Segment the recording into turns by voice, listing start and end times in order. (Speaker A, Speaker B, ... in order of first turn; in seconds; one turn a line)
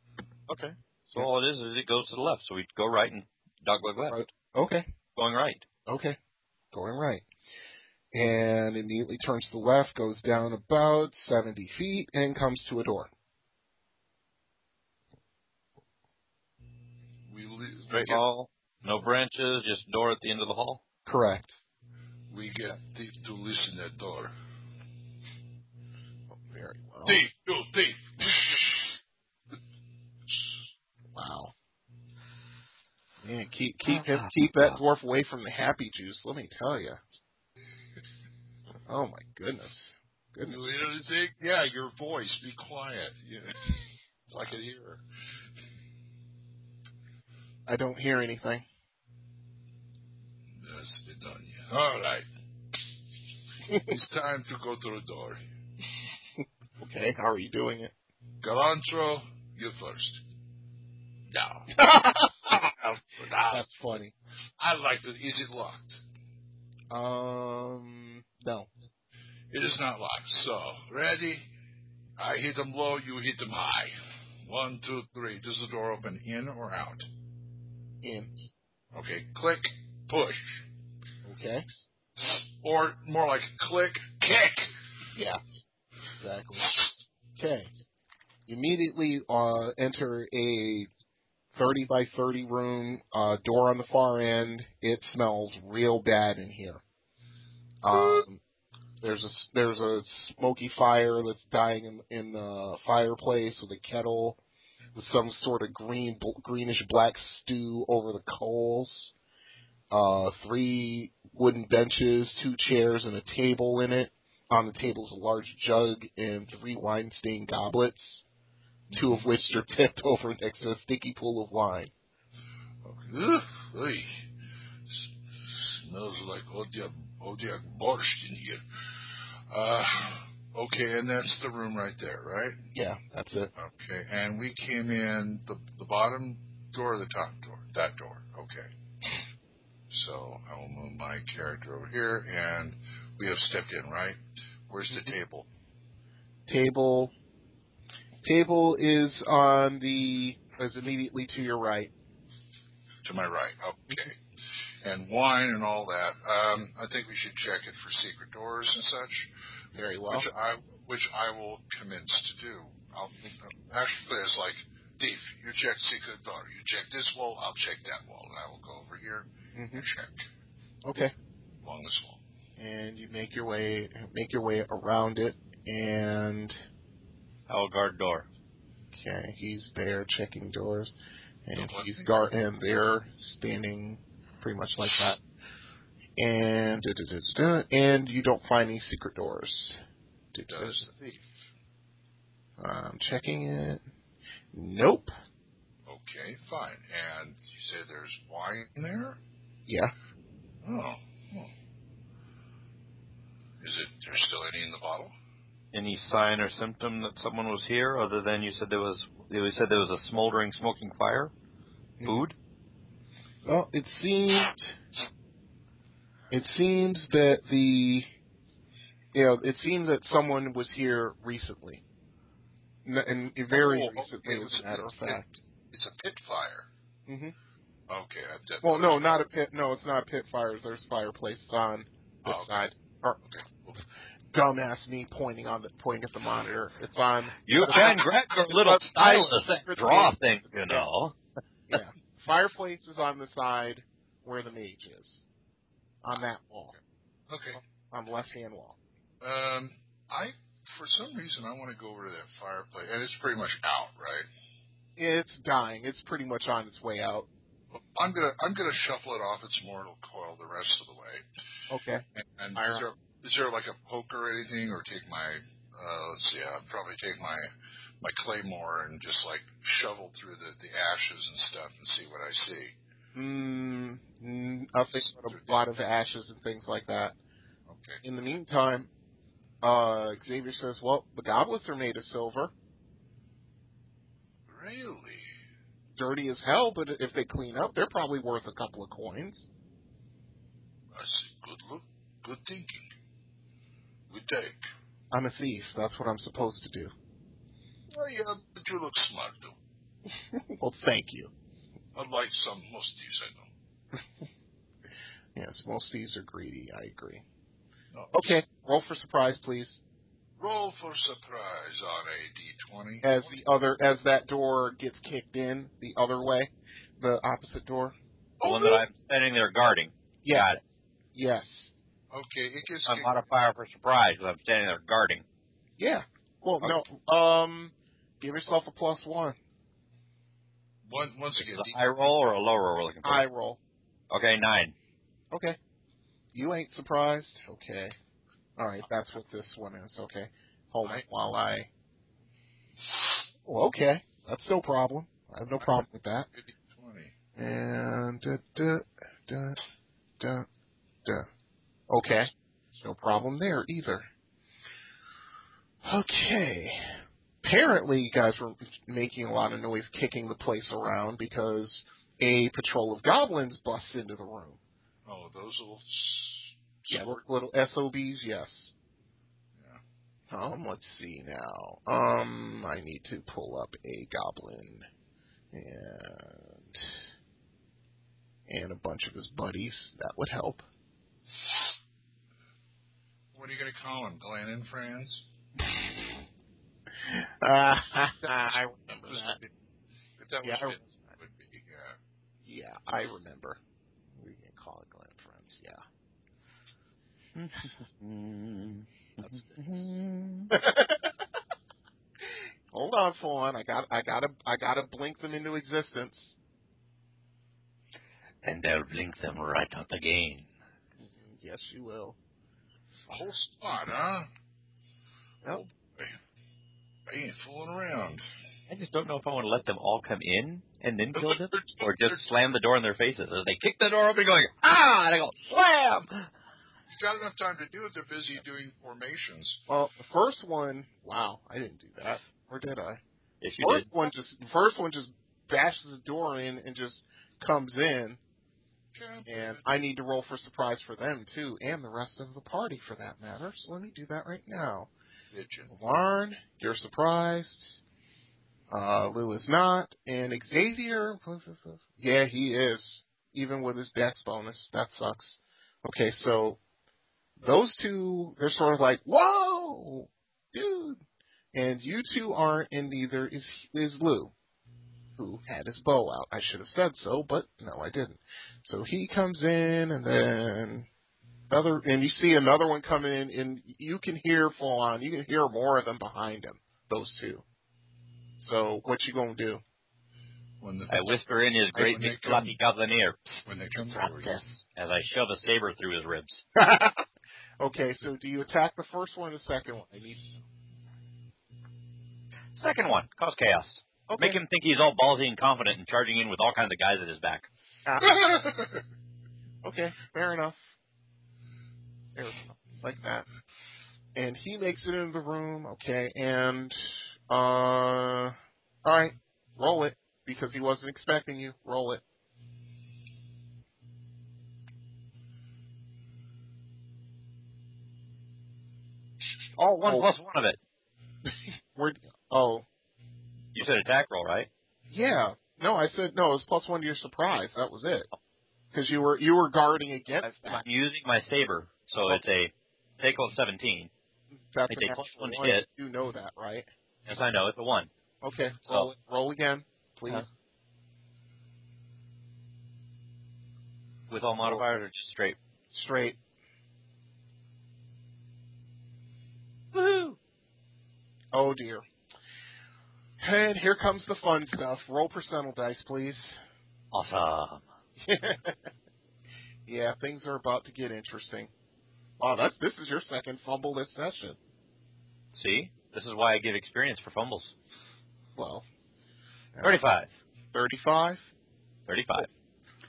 Speaker A: 0.5-4.2
Speaker B: 4.1-4.9
Speaker A: 5.2-5.6
Speaker B: 5.9-6.2
Speaker B: 6.7-7.2
Speaker B: 8.1-13.1
Speaker C: 17.3-18.2
Speaker A: 17.9-20.8
Speaker B: 21.1-21.5
Speaker C: 22.3-24.3
Speaker B: 26.3-27.2
Speaker C: 27.0-28.7
Speaker B: 31.1-31.5
Speaker B: 33.2-37.0
Speaker A: 33.9-34.7
Speaker B: 38.9-40.6
Speaker C: 40.5-43.8
Speaker C: 44.3-45.0
Speaker B: 47.6-48.6
Speaker C: 50.6-52.2
Speaker B: 53.7-53.9
Speaker C: 53.7-55.4
Speaker B: 56.8-57.9
Speaker C: 58.4-60.2
Speaker C: 61.3-61.7
Speaker B: 61.7-62.5
Speaker C: 62.5-63.6
Speaker B: 63.5-64.1
Speaker C: 64.6-66.0
Speaker B: 66.9-68.7
Speaker C: 69.5-71.5
Speaker C: 72.2-77.1
Speaker B: 78.0-78.3
Speaker C: 78.9-80.6
Speaker B: 81.2-81.7
Speaker C: 82.2-84.7
Speaker B: 85.1-85.4
Speaker B: 86.2-86.7
Speaker B: 87.4-87.7
Speaker B: 88.5-90.9
Speaker B: 91.5-96.8
Speaker B: 97.8-98.4
Speaker C: 97.9-98.2
Speaker B: 99.0-104.4
Speaker B: 104.9-109.1
Speaker B: 109.9-118.2
Speaker C: 118.9-119.2
Speaker B: 118.9-121.9
Speaker C: 122.8-124.2
Speaker C: 125.5-128.6
Speaker C: 129.5-132.6
Speaker B: 132.7-133.5
Speaker C: 133.6-138.7
Speaker C: 139.9-145.5
Speaker B: 146.5-147.1
Speaker B: 148.2-151.9
Speaker C: 153.0-154.2
Speaker C: 154.8-159.3
Speaker B: 159.7-160.3
Speaker C: 160.1-170.2
Speaker B: 169.5-169.8
Speaker B: 170.8-171.1
Speaker C: 171.6-172.2
Speaker B: 172.6-176.6
Speaker A: 177.5-178.3
Speaker B: 178.9-180.9
Speaker B: 181.4-185.2
Speaker C: 181.6-182.1
Speaker B: 186.2-189.8
Speaker B: 190.3-190.9
Speaker C: 190.5-191.2
Speaker B: 192.6-193.8
Speaker B: 194.5-195.1
Speaker C: 195.9-199.2
Speaker B: 199.7-199.9
Speaker C: 200.6-201.5
Speaker C: 203.6-205.1
Speaker A: 205.7-211.3
Speaker A: 212.0-212.3
Speaker B: 213.4-214.7
Speaker B: 216.3-218.1
Speaker B: 219.1-221.8
Speaker B: 222.8-225.3
Speaker C: 223.5-226.7
Speaker B: 227.1-227.3
Speaker C: 227.9-229.2
Speaker B: 228.6-233.2
Speaker C: 232.2-232.6
Speaker C: 233.2-233.8
Speaker B: 234.3-240.9
Speaker A: 237.4-241.1
Speaker B: 241.7-245.2
Speaker B: 246.0-246.8
Speaker C: 247.3-247.6
Speaker B: 247.6-248.8
Speaker C: 249.2-254.3
Speaker B: 255.0-257.3
Speaker C: 257.7-261.2
Speaker B: 261.7-262.0
Speaker C: 262.1-267.5
Speaker B: 262.6-262.8
Speaker C: 268.0-272.7
Speaker B: 273.1-277.1
Speaker C: 274.9-275.6
Speaker C: 277.7-278.0
Speaker B: 278.0-278.9
Speaker B: 279.6-282.5
Speaker C: 284.5-285.3
Speaker B: 286.0-289.4
Speaker C: 290.9-292.9
Speaker C: 294.1-294.6
Speaker B: 295.1-296.9
Speaker C: 297.9-299.6
Speaker B: 300.3-301.3
Speaker C: 301.9-303.5
Speaker B: 305.3-307.2
Speaker C: 307.9-308.3
Speaker B: 308.1-309.8
Speaker C: 310.4-313.3
Speaker B: 313.0-317.9
Speaker C: 318.4-318.8
Speaker A: 318.4-320.6
Speaker B: 320.2-320.5
Speaker B: 321.1-321.7
Speaker C: 322.1-323.2
Speaker A: 322.9-325.2
Speaker B: 325.8-329.4
Speaker C: 330.9-331.8
Speaker A: 331.4-333.2
Speaker B: 333.0-333.6
Speaker A: 334.1-334.7
Speaker B: 335.3-335.6
Speaker B: 336.3-337.9
Speaker B: 338.6-341.7
Speaker B: 343.4-346.3
Speaker C: 346.3-347.1
Speaker B: 347.4-349.6
Speaker B: 350.2-350.5
Speaker B: 351.9-354.1
Speaker B: 355.8-364.6
Speaker C: 365.1-367.2
Speaker B: 366.9-368.7
Speaker C: 369.6-369.8
Speaker B: 370.3-374.9
Speaker B: 375.5-376.9
Speaker B: 378.5-380.6
Speaker C: 383.3-385.2
Speaker B: 387.0-389.4
Speaker C: 388.9-389.5
Speaker C: 390.2-392.0
Speaker B: 390.4-390.8
Speaker B: 392.4-393.6
Speaker B: 394.2-395.8
Speaker A: 397.3-400.5
Speaker B: 399.2-399.6
Speaker B: 400.5-401.1
Speaker B: 402.2-406.3
Speaker A: 408.4-410.5
Speaker B: 411.0-412.2
Speaker C: 413.1-414.3
Speaker C: 415.4-416.2
Speaker C: 417.1-418.2
Speaker A: 418.7-426.2
Speaker C: 421.1-422.2
Speaker C: 426.9-429.6
Speaker B: 429.7-433.0
Speaker A: 433.4-433.9
Speaker B: 433.6-438.2
Speaker C: 438.9-439.6
Speaker B: 439.2-444.9
Speaker C: 445.3-445.7
Speaker B: 445.7-447.8
Speaker B: 448.7-456.6
Speaker B: 457.4-461.0
Speaker B: 461.5-464.3
Speaker B: 465.2-470.9
Speaker B: 471.5-477.4
Speaker B: 478.4-479.6
Speaker C: 480.6-481.2
Speaker A: 480.9-483.4
Speaker C: 481.7-482.6
Speaker C: 483.4-484.4
Speaker A: 483.9-486.4
Speaker B: 486.6-487.0
Speaker B: 487.6-490.4
Speaker A: 492.6-497.5
Speaker B: 494.1-494.4
Speaker B: 497.9-498.2
Speaker B: 499.6-500.6
Speaker B: 502.1-503.2
Speaker B: 504.1-512.0
Speaker A: 519.6-520.6
Speaker B: 519.8-520.1
Speaker B: 521.7-522.6
Speaker A: 523.5-524.5
Speaker B: 524.9-528.1
Speaker B: 528.7-530.6
Speaker A: 530.2-533.9
Speaker B: 534.5-536.7
Speaker A: 534.7-535.6
Speaker A: 537.0-537.9
Speaker B: 538.2-540.3
Speaker A: 544.1-545.4
Speaker B: 545.7-546.2
Speaker A: 549.7-550.1
Speaker B: 551.3-551.8
Speaker B: 553.2-556.3
Speaker A: 556.9-557.6
Speaker B: 558.0-558.7
Speaker B: 559.6-561.5
Speaker B: 562.2-564.4
Speaker A: 565.3-567.5
Speaker B: 568.3-568.6
Speaker B: 569.5-569.8
Speaker A: 569.6-570.1
Speaker B: 570.5-571.2
Speaker A: 571.9-572.3